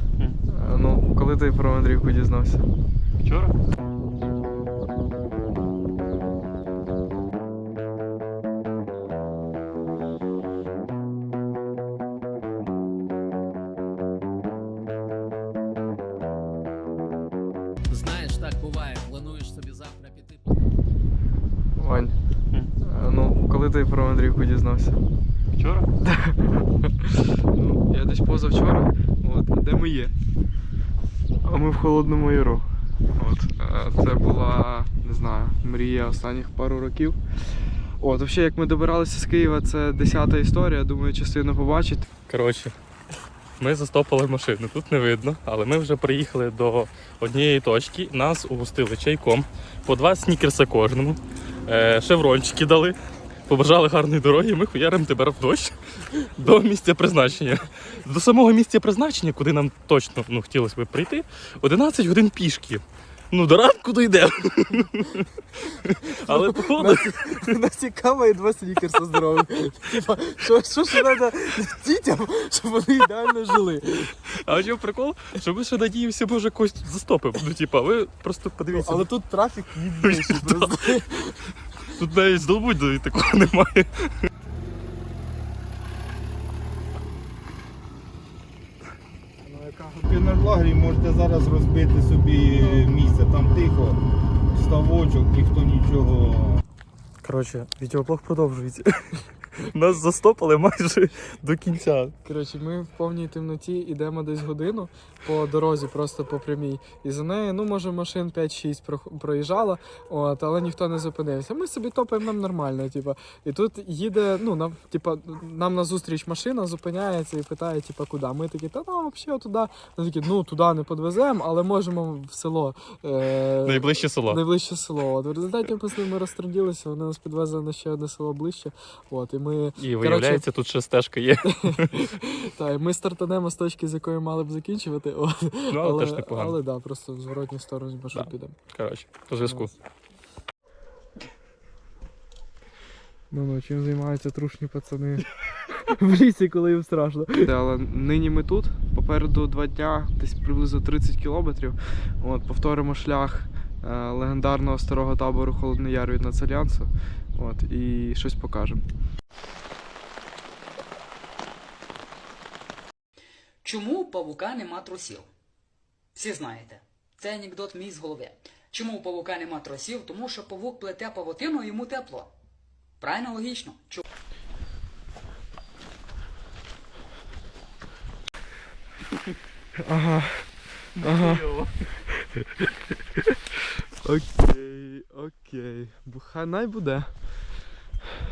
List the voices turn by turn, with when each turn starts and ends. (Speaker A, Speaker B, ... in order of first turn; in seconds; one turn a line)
Speaker A: 0.5-2.7
Speaker B: 3.2-3.5
Speaker C: 17.9-20.7
Speaker A: 21.8-22.1
Speaker A: 22.8-25.0
Speaker B: 25.6-25.9
Speaker A: 26.0-30.1
Speaker A: 31.4-37.2
Speaker A: 38.0-42.1
Speaker B: 42.3-42.7
Speaker B: 43.6-53.0
Speaker B: 53.5-67.5
Speaker A: 65.9-74.2
Speaker B: 74.3-79.1
Speaker A: 78.7-81.3
Speaker B: 80.0-81.0
Speaker B: 81.9-84.1
Speaker A: 89.5-90.0
Speaker D: 89.8-94.0
Speaker D: 94.5-96.6
Speaker B: 97.2-102.1
Speaker A: 102.2-130.5
Speaker B: 123.6-124.4
Speaker B: 129.8-132.1
Speaker A: 131.5-138.6
Speaker B: 135.7-136.6
Speaker B: 138.1-139.7
Speaker A: 139.4-139.7
Speaker A: 143.3-158.8
Speaker E: 163.6-165.3
Speaker E: 166.2-172.3
Speaker E: 173.0-174.1
Speaker A: 179.8-181.6
Speaker B: 181.0-181.7
Speaker A: 182.2-183.4
Speaker A: 184.0-187.1